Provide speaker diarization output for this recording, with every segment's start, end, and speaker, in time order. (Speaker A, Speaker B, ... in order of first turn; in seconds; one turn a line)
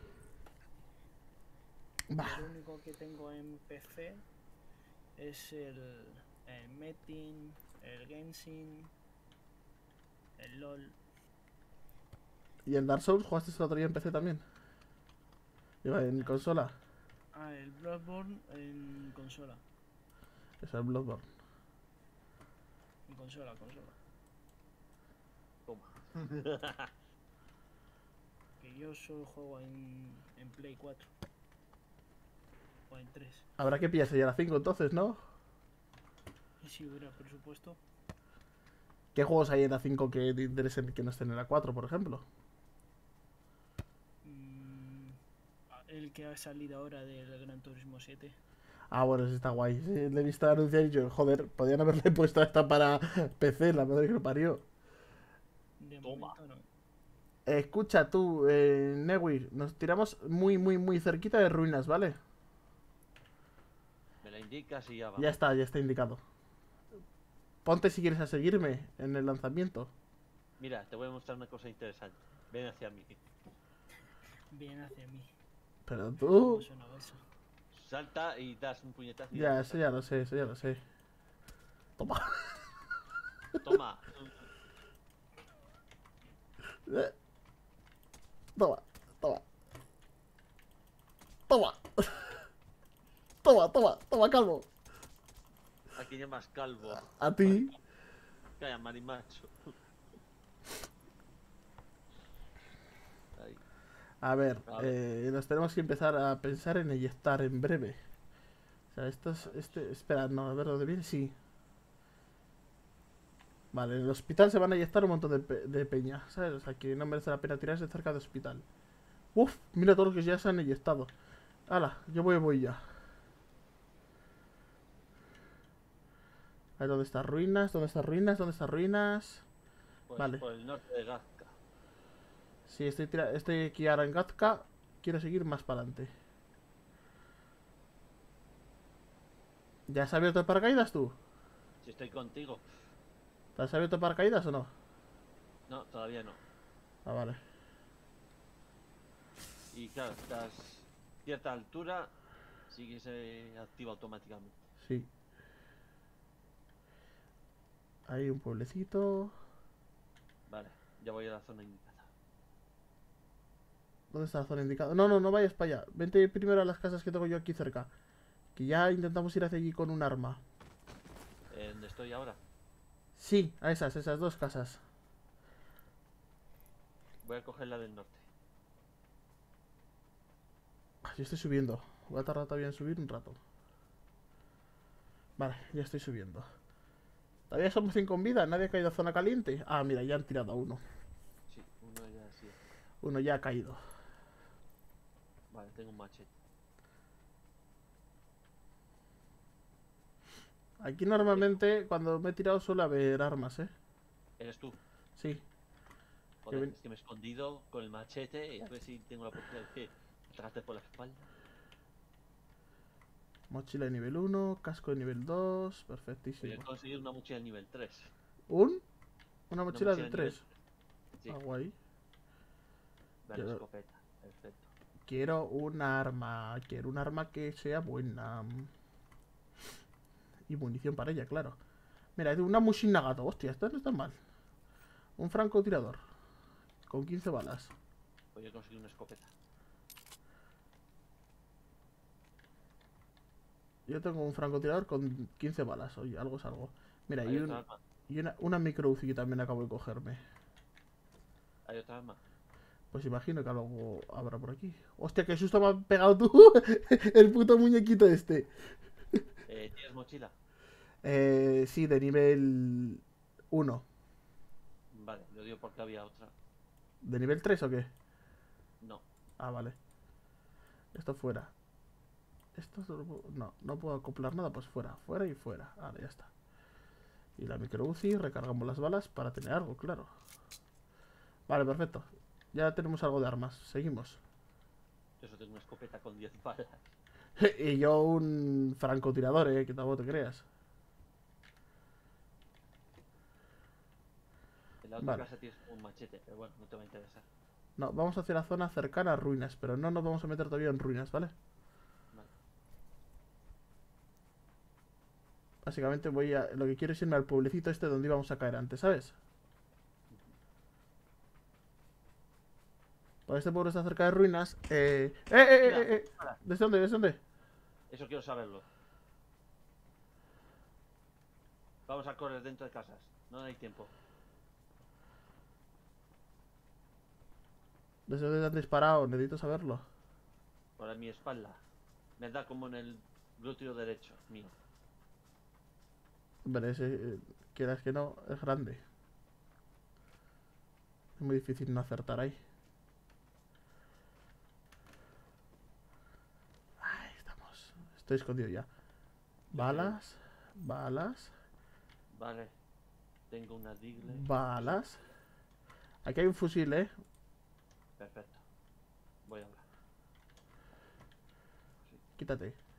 Speaker A: 2.1-2.5
Speaker B: 2.2-4.2
Speaker B: 5.2-8.9
Speaker B: 10.4-11.0
Speaker A: 12.6-14.4
Speaker A: 15.8-16.8
Speaker B: 16.2-16.4
Speaker B: 17.3-19.6
Speaker A: 20.6-21.3
Speaker B: 23.1-24.0
Speaker C: 25.6-26.9
Speaker B: 28.6-31.1
Speaker B: 32.9-33.5
Speaker A: 33.6-35.2
Speaker B: 36.6-37.8
Speaker A: 39.1-42.2
Speaker B: 44.2-45.2
Speaker B: 45.8-48.4
Speaker A: 48.9-54.6
Speaker B: 55.8-56.7
Speaker C: 56.0-56.4
Speaker A: 57.5-62.2
Speaker C: 64.2-65.4
Speaker A: 65.2-66.2
Speaker A: 67.6-69.9
Speaker C: 70.6-73.2
Speaker B: 74.5-75.3
Speaker A: 75.8-76.7
Speaker B: 76.2-77.2
Speaker C: 77.7-79.8
Speaker A: 79.3-80.8
Speaker A: 82.0-82.6
Speaker C: 83.6-84.5
Speaker A: 86.8-87.1
Speaker A: 88.5-89.4
Speaker A: 91.5-92.4
Speaker A: 93.4-94.7
Speaker C: 95.9-97.7
Speaker A: 97.0-97.7
Speaker C: 98.6-99.7
Speaker C: 103.3-103.6
Speaker A: 104.2-108.0
Speaker C: 104.7-105.0
Speaker A: 108.9-111.3
Speaker C: 109.4-109.8
Speaker A: 113.7-118.6
Speaker A: 119.3-121.1
Speaker A: 121.7-122.8
Speaker A: 126.8-129.4
Speaker C: 130.1-131.6
Speaker A: 130.2-130.4
Speaker A: 132.7-136.1
Speaker A: 139.9-141.2
Speaker C: 141.8-142.7
Speaker A: 143.6-144.7
Speaker C: 145.7-146.4
Speaker A: 147.0-147.4
Speaker C: 149.7-152.1
Speaker C: 152.7-154.7
Speaker A: 154.8-155.1
Speaker A: 158.1-159.3
Speaker C: 160.5-162.1
Speaker A: 164.1-167.9
Speaker A: 168.5-170.4
Speaker C: 171.5-172.4
Speaker A: 173.2-174.8
Speaker C: 177.2-178.3
Speaker A: 181.0-183.4
Speaker A: 185.4-186.5
Speaker A: 187.5-190.8
Speaker C: 191.5-192.6
Speaker A: 193.0-193.8
Speaker C: 195.5-196.3
Speaker A: 200.8-203.7
Speaker C: 201.3-201.6
Speaker C: 204.4-204.8
Speaker A: 205.2-205.4
Speaker C: 206.4-211.3
Speaker A: 213.5-216.6
Speaker C: 216.4-218.1
Speaker A: 218.5-218.8
Speaker A: 219.5-220.4
Speaker C: 219.7-220.5
Speaker A: 221.3-221.7
Speaker C: 223.2-224.7
Speaker A: 223.3-223.6
Speaker A: 225.1-228.7
Speaker A: 230.5-231.6
Speaker A: 232.2-234.1
Speaker A: 235.2-236.0
Speaker A: 236.9-237.7
Speaker C: 238.3-239.3
Speaker A: 243.8-250.2
Speaker C: 247.2-247.8
Speaker C: 251.7-252.2
Speaker A: 252.9-259.2
Speaker C: 259.5-260.3
Speaker A: 261.0-263.8
Speaker C: 264.9-266.3
Speaker A: 267.0-267.9
Speaker A: 269.4-269.8
Speaker A: 270.9-271.5
Speaker A: 272.5-276.3
Speaker A: 277.4-280.1
Speaker A: 281.5-284.2
Speaker C: 285.2-286.9
Speaker A: 287.4-290.4
Speaker C: 294.8-297.3
Speaker A: 295.0-295.2
Speaker A: 297.8-301.3
Speaker A: 305.6-309.1
Speaker C: 310.1-310.4
Speaker A: 313.3-317.2
Speaker C: 315.6-316.4
Speaker C: 317.9-318.7
Speaker C: 321.9-323.9
Speaker A: 328.1-329.9
Speaker C: 330.8-331.6
Speaker C: 332.2-334.5
Speaker A: 336.4-338.8
Speaker A: 341.2-342.4
Speaker A: 346.8-348.7
Speaker A: 349.5-351.3
Speaker C: 349.5-350.0
Speaker C: 352.1-352.5
Speaker C: 353.3-354.9
Speaker A: 354.1-355.0
Speaker A: 356.0-356.9
Speaker C: 358.0-358.4
Speaker C: 359.2-359.6
Speaker A: 362.2-362.6